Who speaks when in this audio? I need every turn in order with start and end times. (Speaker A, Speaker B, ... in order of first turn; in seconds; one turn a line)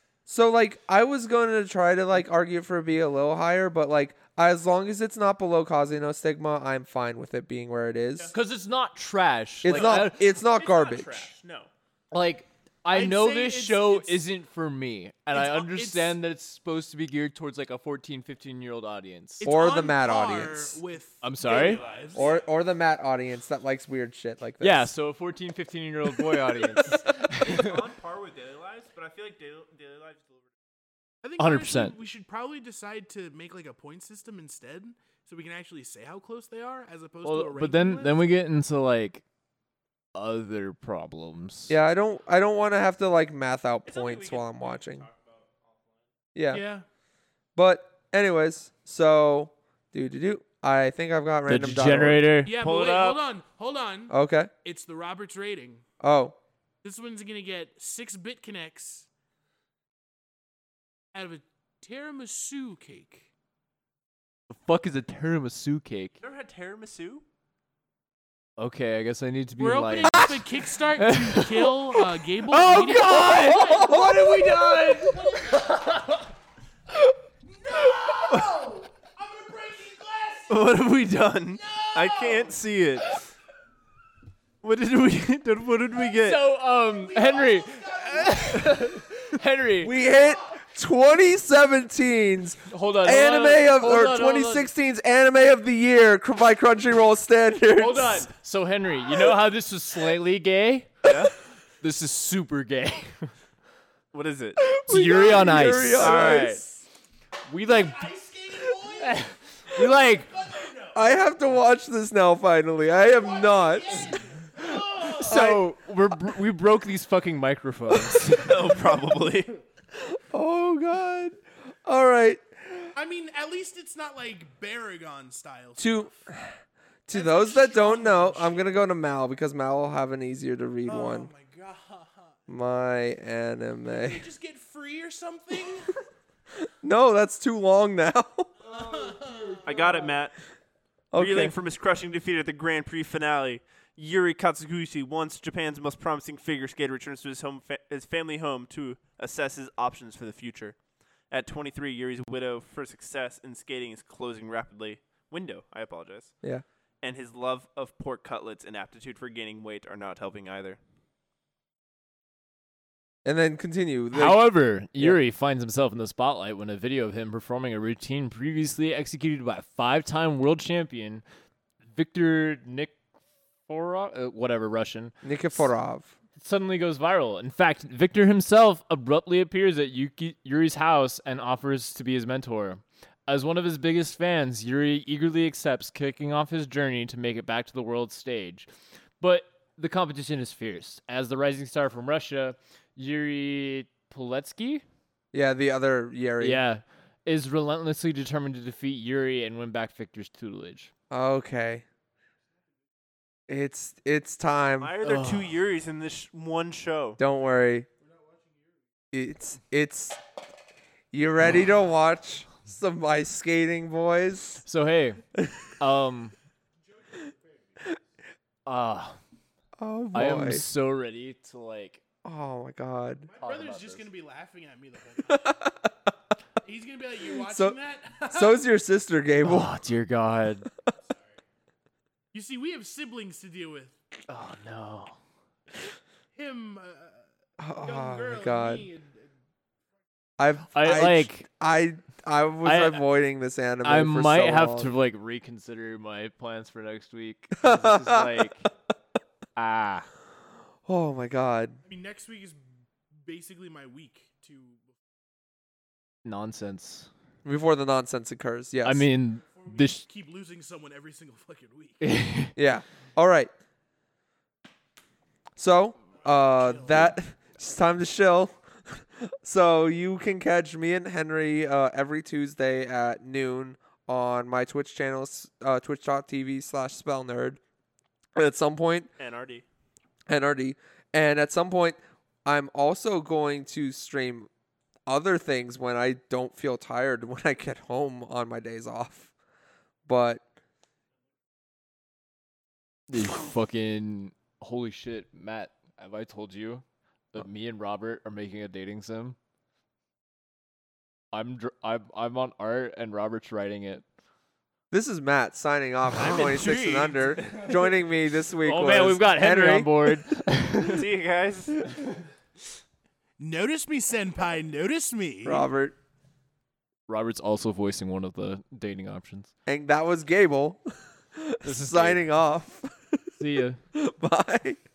Speaker A: 0.3-8.3
Speaker B: 8.3-10.2
Speaker A: 9.6-11.3
Speaker C: 9.7-11.7
Speaker B: 12.1-19.4
Speaker D: 12.9-14.2
Speaker D: 15.3-16.2
Speaker D: 19.4-22.2
Speaker A: 19.4-20.8
Speaker B: 21.2-21.8
Speaker C: 21.4-22.5
Speaker A: 22.1-24.9
Speaker B: 24.6-27.8
Speaker C: 26.9-30.4
Speaker D: 31.2-38.2
Speaker B: 31.4-31.9
Speaker B: 37.2-39.2
Speaker B: 40.1-41.8
Speaker A: 41.7-45.1
Speaker C: 43.9-46.0
Speaker A: 46.3-46.6
Speaker D: 46.5-46.8
Speaker A: 47.5-52.2
Speaker B: 51.5-52.9
Speaker D: 52.4-55.8
Speaker C: 52.6-53.2
Speaker A: 54.1-54.5
Speaker A: 56.0-56.4
Speaker D: 56.8-59.1
Speaker D: 61.1-63.3
Speaker B: 64.5-66.2
Speaker C: 66.2-67.2
Speaker B: 68.6-76.2
Speaker D: 69.6-74.1
Speaker D: 74.8-75.7
Speaker D: 77.5-80.9
Speaker C: 78.3-78.6
Speaker C: 80.5-83.2
Speaker D: 81.5-82.6
Speaker C: 84.6-86.4
Speaker B: 86.2-89.9
Speaker D: 86.8-89.2
Speaker A: 89.8-98.3
Speaker B: 92.7-94.7
Speaker B: 97.7-101.1
Speaker C: 101.0-101.3
Speaker B: 101.8-103.3
Speaker C: 104.1-104.8
Speaker A: 104.8-106.6
Speaker B: 104.8-106.6
Speaker C: 106.0-106.6
Speaker B: 107.5-108.1
Speaker D: 107.6-111.2
Speaker B: 108.9-110.3
Speaker A: 110.9-114.2
Speaker D: 112.9-115.6
Speaker B: 114.6-118.8
Speaker A: 115.2-115.6
Speaker A: 117.9-118.7
Speaker C: 118.4-119.5
Speaker A: 119.9-122.9
Speaker D: 122.9-126.1
Speaker A: 125.8-126.5
Speaker A: 127.1-131.3
Speaker D: 127.1-128.7
Speaker D: 130.8-132.4
Speaker A: 132.5-134.2
Speaker D: 133.9-135.9
Speaker A: 136.6-138.5
Speaker D: 138.6-139.7
Speaker C: 139.6-140.4
Speaker A: 141.1-141.5
Speaker C: 141.2-150.8
Speaker C: 151.3-156.3
Speaker C: 157.0-160.8
Speaker A: 163.2-164.4
Speaker B: 164.1-171.2
Speaker B: 171.9-173.0
Speaker B: 173.7-175.7
Speaker A: 175.2-176.1
Speaker B: 176.4-188.7
Speaker B: 189.2-194.8
Speaker A: 195.3-196.6
Speaker B: 196.4-200.9
Speaker A: 201.1-201.8
Speaker A: 203.5-204.9
Speaker C: 204.8-207.2
Speaker B: 205.0-205.5
Speaker A: 207.2-207.9
Speaker A: 209.1-210.2
Speaker A: 211.1-214.6
Speaker B: 214.6-215.2
Speaker A: 215.3-215.7
Speaker B: 215.8-216.3
Speaker D: 217.0-217.9
Speaker B: 218.7-219.2
Speaker A: 219.8-220.6
Speaker B: 220.1-222.0
Speaker A: 222.2-223.3
Speaker D: 223.3-225.5
Speaker B: 223.4-224.1
Speaker A: 225.3-225.9
Speaker D: 226.6-228.7
Speaker A: 227.4-227.8
Speaker A: 228.3-229.8
Speaker B: 229.4-230.7
Speaker D: 232.3-234.0
Speaker B: 234.3-235.2
Speaker D: 236.3-237.2
Speaker A: 237.6-238.8
Speaker D: 237.8-239.3
Speaker A: 240.4-244.9
Speaker B: 240.7-241.4
Speaker B: 242.6-243.0
Speaker B: 243.8-248.7
Speaker A: 247.6-248.4
Speaker B: 249.6-250.1
Speaker A: 250.8-251.8
Speaker D: 251.8-252.6
Speaker D: 253.2-254.8
Speaker B: 256.2-257.1
Speaker A: 257.4-259.1
Speaker B: 258.8-260.0
Speaker D: 259.5-262.1
Speaker B: 262.0-262.5
Speaker A: 262.6-263.5
Speaker A: 265.6-277.6
Speaker D: 266.2-267.1
Speaker A: 278.4-279.1
Speaker C: 279.2-279.6
Speaker A: 280.3-284.5
Speaker A: 285.1-289.3
Speaker A: 290.1-290.4
Speaker B: 293.1-299.4
Speaker B: 301.3-304.0
Speaker A: 304.9-310.2
Speaker D: 306.1-307.6
Speaker B: 308.6-311.1
Speaker C: 310.8-311.8
Speaker D: 313.4-315.7
Speaker A: 315.4-315.9
Speaker B: 317.1-319.5
Speaker A: 319.7-320.8
Speaker A: 321.3-323.3
Speaker B: 321.6-322.2
Speaker B: 323.4-323.8
Speaker A: 323.9-324.8